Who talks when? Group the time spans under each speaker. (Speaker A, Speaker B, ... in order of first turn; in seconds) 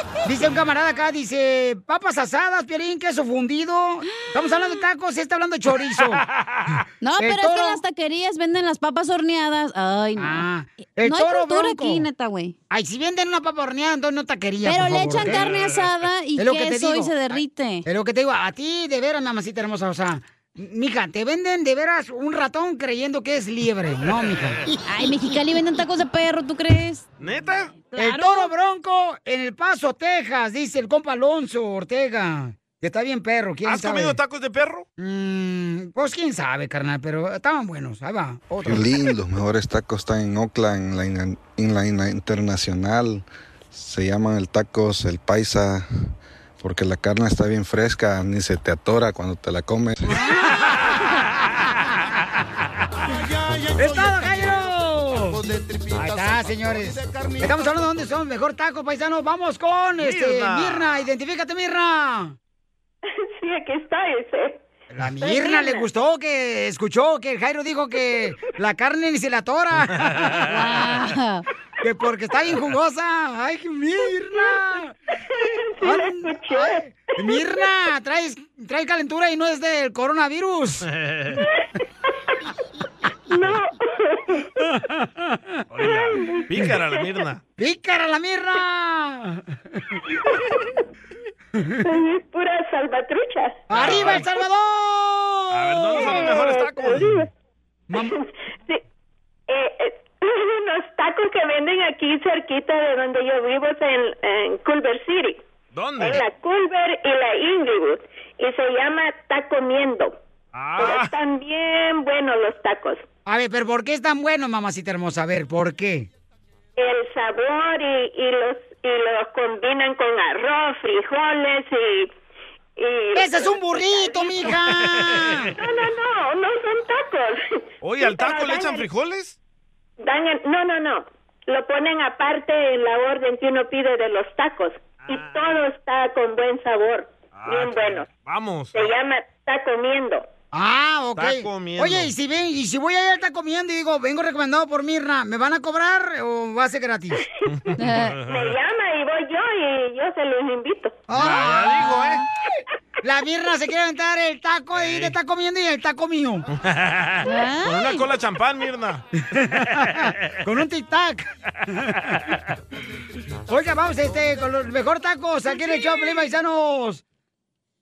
Speaker A: 0.2-6.2, 7.2-7.8, 10.2-12.1, 12.7-15.5, 16.4-24.6, 27.9-34.2, 35.0-38.9, 53.8-55.4, 55.9-62.4, 65.0-70.5, 71.8-74.9, 75.8-80.9, 87.6-89.4, 93.7-96.2, 113.2-116.1, 123.1-125.5, 140.5-147.2, 151.1-152.0, 153.0-156.4, 159.7-161.3, 163.5-167.0
Speaker B: 4.4-4.8, 7.0-10.4, 11.0-12.5, 14.6-17.8, 24.8-27.1, 27.7-28.5, 70.5-71.4, 147.8-148.1, 157.2-158.1
Speaker C: 6.0-6.8, 15.2-15.9, 27.2-27.7, 33.6-34.9, 50.5-50.9, 60.0-61.0, 70.1-70.5, 80.9-81.4, 85.7-87.4, 93.7-94.3, 95.5-97.3, 105.7-106.2, 110.5-111.1, 124.7-125.5, 127.8-129.4, 135.0-135.6, 137.3-138.8, 141.2-142.1, 147.5-148.5, 151.1-152.2, 154.7-155.1, 156.5-159.0, 159.7-160.3
Speaker D: 38.6-45.9, 46.6-50.2
Speaker E: 63.1-64.6, 65.2-65.7, 74.3-74.6, 75.4-77.6, 81.3-81.6, 83.3-84.6, 85.8-87.0, 90.2-90.7, 91.8-93.6, 96.0-97.3, 98.0-98.8, 99.5-105.4, 106.0-110.2, 110.8-113.0, 116.8-122.1, 122.8-124.5, 125.6-128.9, 130.0-138.1, 138.7-140.3, 148.3-151.0